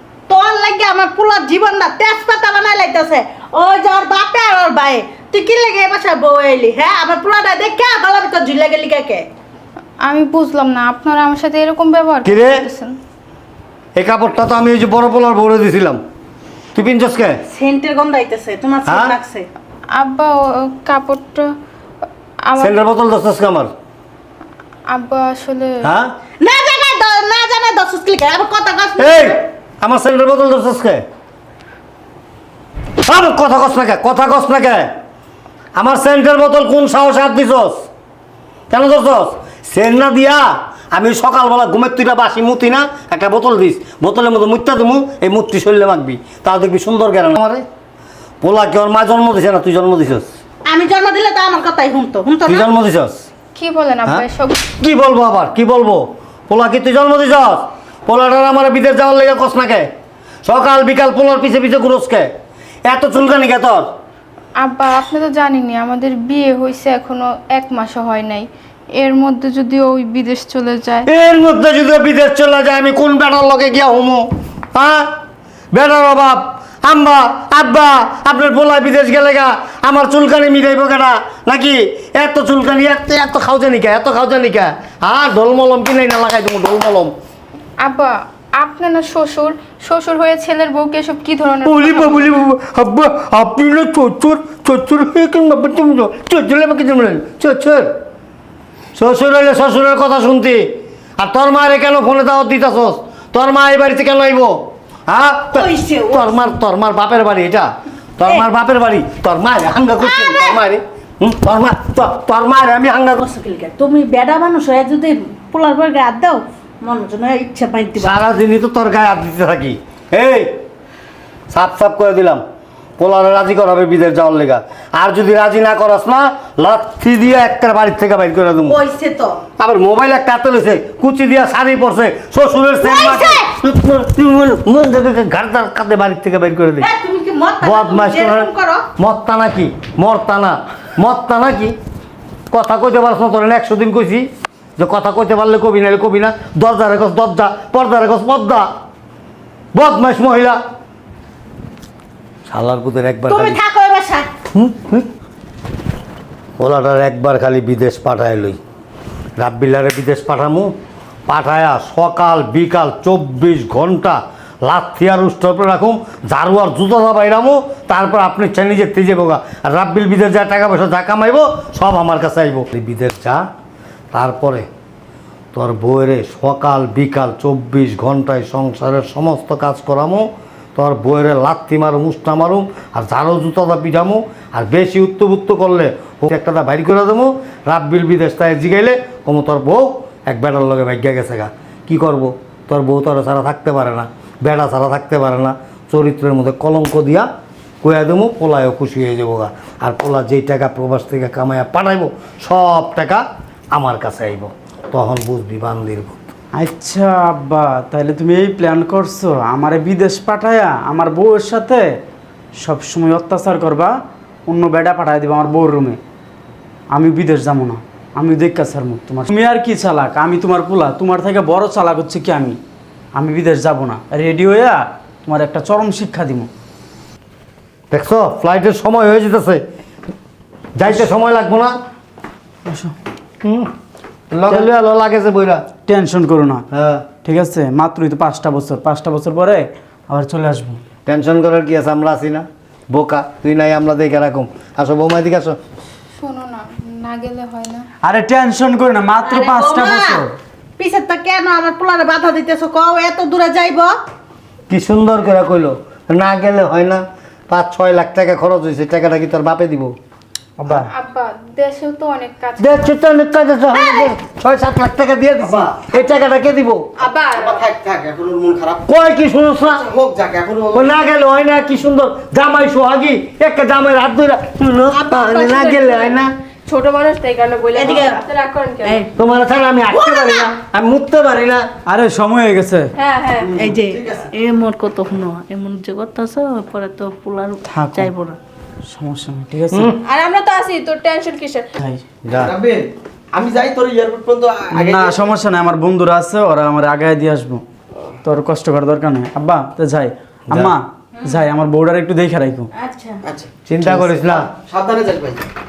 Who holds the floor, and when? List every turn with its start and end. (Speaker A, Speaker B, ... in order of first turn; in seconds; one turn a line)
Speaker A: 0.3-9.3
Speaker B: 10.0-13.0
Speaker C: 12.2-12.6
Speaker C: 14.0-16.0
Speaker C: 16.8-17.4
Speaker A: 17.5-19.5
Speaker C: 18.9-19.2
Speaker B: 19.9-21.5
Speaker B: 22.4-22.8
Speaker C: 22.6-23.7
Speaker B: 24.9-25.9
Speaker C: 25.8-26.1
Speaker A: 26.4-29.4
Speaker C: 29.0-31.0
Speaker C: 33.0-34.9
Speaker C: 35.8-37.8
Speaker C: 38.7-47.6
Speaker C: 48.4-50.3
Speaker A: 50.7-52.7
Speaker C: 52.5-53.2
Speaker B: 53.5-54.6
Speaker C: 54.8-59.9
Speaker C: 60.5-62.3
Speaker C: 62.9-63.9
Speaker B: 64.6-71.1
Speaker C: 71.1-75.1
Speaker C: 75.7-87.1
Speaker B: 87.8-92.3
Speaker C: 91.7-97.9
Speaker C: 99.0-104.6
Speaker C: 105.1-113.2
Speaker A: 105.5-106.4
Speaker A: 110.0-110.6
Speaker A: 113.2-118.2
Speaker C: 118.0-120.5
Speaker C: 121.5-122.4
Speaker C: 123.0-128.8
Speaker A: 128.7-129.4
Speaker C: 129.6-136.9
Speaker A: 132.8-133.5
Speaker A: 136.8-138.9
Speaker C: 137.6-141.8
Speaker C: 142.5-148.7
Speaker C: 149.7-150.6
Speaker C: 152.5-153.6
Speaker A: 153.3-154.3
Speaker C: 154.5-155.1
Speaker C: 156.6-158.6
Speaker C: 159.4-160.7
Speaker C: 161.3-173.4
Speaker C: 174.1-174.7
Speaker C: 175.5-197.3
Speaker C: 197.8-206.2
Speaker D: 206.6-211.9
Speaker D: 212.6-213.9
Speaker D: 214.5-216.0
Speaker D: 216.9-222.6
Speaker D: 223.2-226.5
Speaker C: 227.9-229.6
Speaker C: 230.8-231.8
Speaker D: 232.7-232.9
Speaker C: 233.4-233.7
Speaker C: 234.3-235.7
Speaker D: 235.9-236.6
Speaker C: 236.7-237.1
Speaker D: 237.2-240.8
Speaker C: 241.1-245.6
Speaker B: 246.2-247.9
Speaker D: 248.0-250.3
Speaker A: 249.2-250.2
Speaker A: 250.8-254.0
Speaker C: 254.7-259.9
Speaker D: 260.6-260.9
Speaker B: 260.8-263.0
Speaker C: 262.6-266.8
Speaker A: 263.7-264.1
Speaker E: 265.4-265.7
Speaker F: 267.0-267.6
Speaker E: 267.4-268.9
Speaker C: 268.9-269.9
Speaker E: 269.8-270.9
Speaker C: 270.7-276.3
Speaker F: 275.1-279.0
Speaker A: 277.7-278.2
Speaker A: 278.8-279.1
Speaker C: 279.2-281.7
Speaker A: 279.9-280.5
Speaker D: 281.9-282.9
Speaker F: 283.0-283.5
Speaker A: 283.6-288.4
Speaker E: 283.6-284.3
Speaker D: 287.7-288.1
Speaker D: 288.9-289.9
Speaker C: 289.7-290.0
Speaker F: 290.0-291.7
Speaker C: 292.3-292.5
Speaker E: 292.3-295.3
Speaker D: 294.7-297.6
Speaker D: 298.2-302.7
Speaker A: 302.8-303.2
Speaker E: 303.2-305.5
Speaker C: 303.7-304.5